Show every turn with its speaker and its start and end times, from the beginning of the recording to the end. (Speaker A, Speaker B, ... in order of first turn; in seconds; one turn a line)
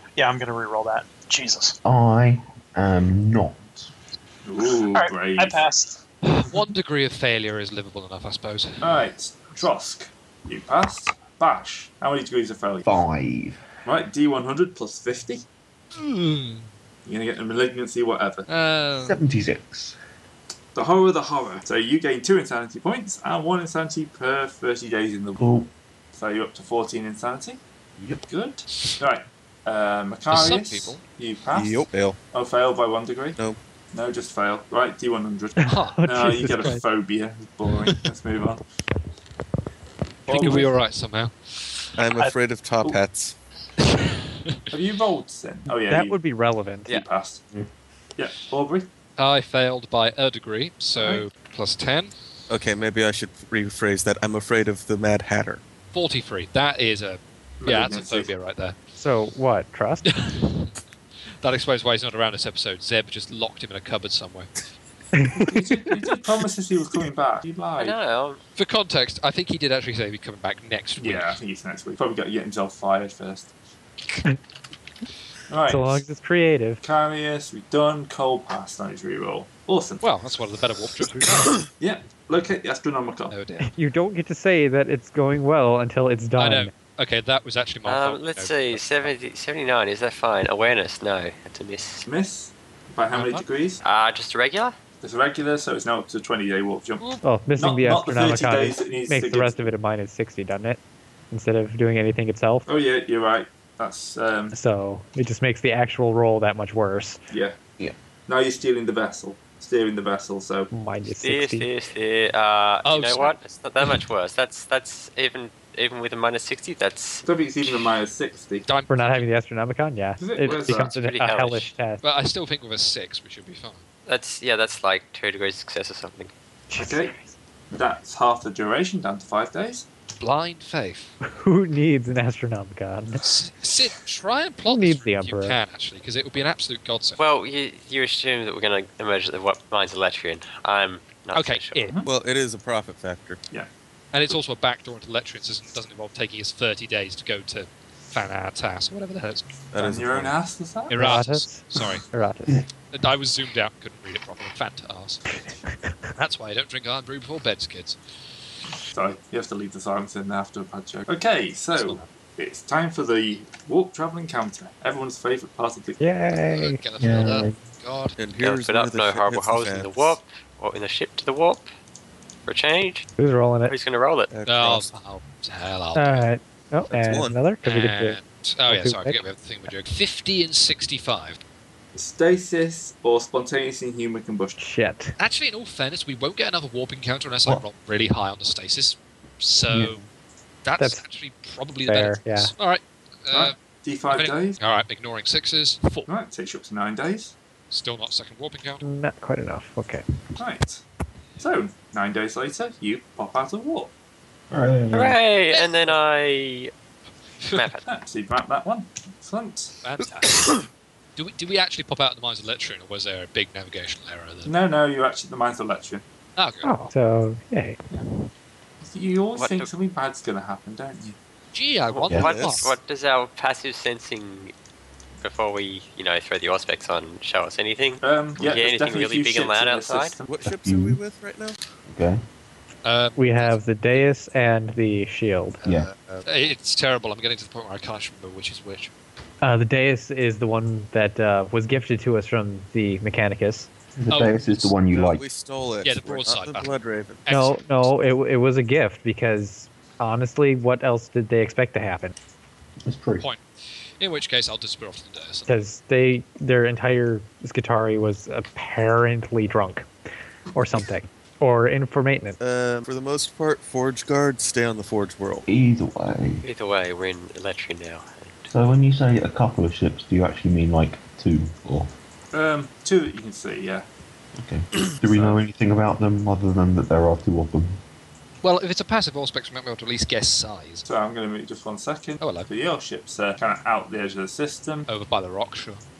Speaker A: 0.1-1.8
Speaker B: 1.8-3.9
Speaker C: 4.4-5.6
Speaker A: 4.6-6.0
Speaker D: 6.2-9.0
Speaker C: 8.8-12.9
Speaker B: 12.8-13.6
Speaker C: 13.8-15.4
Speaker D: 15.9-16.7
Speaker C: 17.1-18.5
Speaker D: 18.5-19.2
Speaker B: 19.0-20.0
Speaker C: 20.7-25.4
Speaker B: 25.4-25.7
Speaker C: 26.1-27.6
Speaker B: 28.0-28.2
Speaker C: 28.3-33.4
Speaker D: 30.3-31.0
Speaker E: 31.5-32.2
Speaker C: 33.9-38.6
Speaker F: 35.6-36.8
Speaker D: 35.6-36.0
Speaker C: 40.3-40.7
Speaker D: 40.3-41.9
Speaker E: 42.0-43.4
Speaker D: 43.8-44.6
Speaker C: 44.7-46.2
Speaker F: 45.9-46.9
Speaker C: 46.9-47.4
Speaker C: 48.2-48.9
Speaker D: 49.2-52.1
Speaker C: 51.0-51.2
Speaker E: 52.5-55.6
Speaker D: 55.9-58.8
Speaker C: 57.6-58.3
Speaker F: 59.0-60.0
Speaker D: 60.0-60.7
Speaker D: 61.4-64.5
Speaker F: 65.2-65.6
Speaker C: 65.4-68.0
Speaker G: 67.8-68.4
Speaker D: 68.5-71.4
Speaker C: 71.0-73.5
Speaker C: 75.5-76.0
Speaker F: 75.7-76.8
Speaker C: 76.8-80.0
Speaker D: 80.0-81.7
Speaker C: 81.8-83.3
Speaker D: 83.3-83.7
Speaker F: 83.6-86.7
Speaker D: 86.4-89.1
Speaker G: 87.8-92.1
Speaker C: 92.1-93.8
Speaker D: 93.1-93.4
Speaker G: 93.8-94.7
Speaker C: 95.0-97.0
Speaker F: 97.2-102.7
Speaker C: 97.6-99.7
Speaker C: 102.7-104.5
Speaker F: 104.5-107.2
Speaker C: 107.3-107.5
Speaker C: 108.3-110.7
Speaker F: 110.7-111.7
Speaker G: 111.2-117.2
Speaker D: 112.8-114.0
Speaker C: 117.2-118.6
Speaker D: 118.7-119.3
Speaker F: 118.9-122.0
Speaker C: 120.2-120.9
Speaker G: 120.5-121.6
Speaker D: 122.0-123.8
Speaker G: 124.1-126.3
Speaker F: 126.7-127.3
Speaker C: 126.7-127.1
Speaker C: 127.7-129.8
Speaker D: 130.2-131.1
Speaker F: 131.2-133.2
Speaker D: 133.2-137.2
Speaker F: 134.7-135.6
Speaker G: 137.2-141.9
Speaker D: 141.3-141.9
Speaker E: 142.0-143.4
Speaker D: 144.1-149.5
Speaker E: 149.7-150.4
Speaker C: 149.8-150.9
Speaker D: 150.9-152.0
Speaker F: 150.9-152.6
Speaker D: 152.9-155.4
Speaker D: 156.1-158.0
Speaker C: 158.9-166.0
Speaker D: 161.7-162.1
Speaker F: 166.0-166.8
Speaker D: 166.5-168.2
Speaker B: 167.0-167.6
Speaker E: 168.2-170.2
Speaker G: 168.4-171.7
Speaker G: 172.5-173.1
Speaker F: 173.2-173.7
Speaker G: 173.7-174.3
Speaker E: 174.3-174.9
Speaker D: 174.4-176.3
Speaker F: 175.9-179.2
Speaker E: 176.9-177.4
Speaker D: 177.6-181.4
Speaker C: 181.9-184.6
Speaker F: 184.6-185.2
Speaker D: 185.2-190.0
Speaker B: 189.7-190.0
Speaker D: 190.6-193.5
Speaker F: 191.9-192.5
Speaker C: 193.3-194.6
Speaker D: 194.1-196.1
Speaker C: 196.1-197.3
Speaker D: 197.7-198.8
Speaker F: 198.8-200.1
Speaker C: 200.4-200.8
Speaker C: 201.4-203.9
Speaker B: 204.5-205.2
Speaker G: 204.9-206.7
Speaker D: 207.4-207.7
Speaker G: 207.6-207.8
Speaker C: 207.8-209.8
Speaker D: 209.8-210.5
Speaker D: 211.2-214.5
Speaker C: 214.4-216.0
Speaker D: 216.3-216.7
Speaker F: 216.6-217.8
Speaker C: 218.8-221.2
Speaker G: 219.3-219.7
Speaker D: 221.5-222.8
Speaker G: 221.9-224.5
Speaker E: 222.2-222.6
Speaker G: 225.2-230.1
Speaker C: 228.0-230.3
Speaker E: 230.2-231.6
Speaker B: 230.4-231.0
Speaker B: 231.9-232.2
Speaker D: 232.8-234.0
Speaker F: 233.2-235.6
Speaker B: 235.6-235.9
Speaker E: 235.6-236.2
Speaker D: 236.2-238.9
Speaker F: 239.4-243.7
Speaker B: 243.9-245.2
Speaker D: 244.1-244.7
Speaker E: 244.9-247.2
Speaker D: 245.8-247.8
Speaker F: 247.3-252.1
Speaker B: 252.8-253.3
Speaker D: 254.0-255.5
Speaker F: 255.5-259.9
Speaker F: 260.5-262.4
Speaker E: 262.4-265.4
Speaker B: 265.5-266.4
Speaker G: 266.4-268.5
Speaker B: 268.5-271.9
Speaker C: 272.3-273.9
Speaker B: 274.4-277.8
Speaker C: 275.1-275.4
Speaker D: 278.4-280.9
Speaker C: 280.9-284.9
Speaker D: 282.2-282.5
Speaker D: 284.9-285.8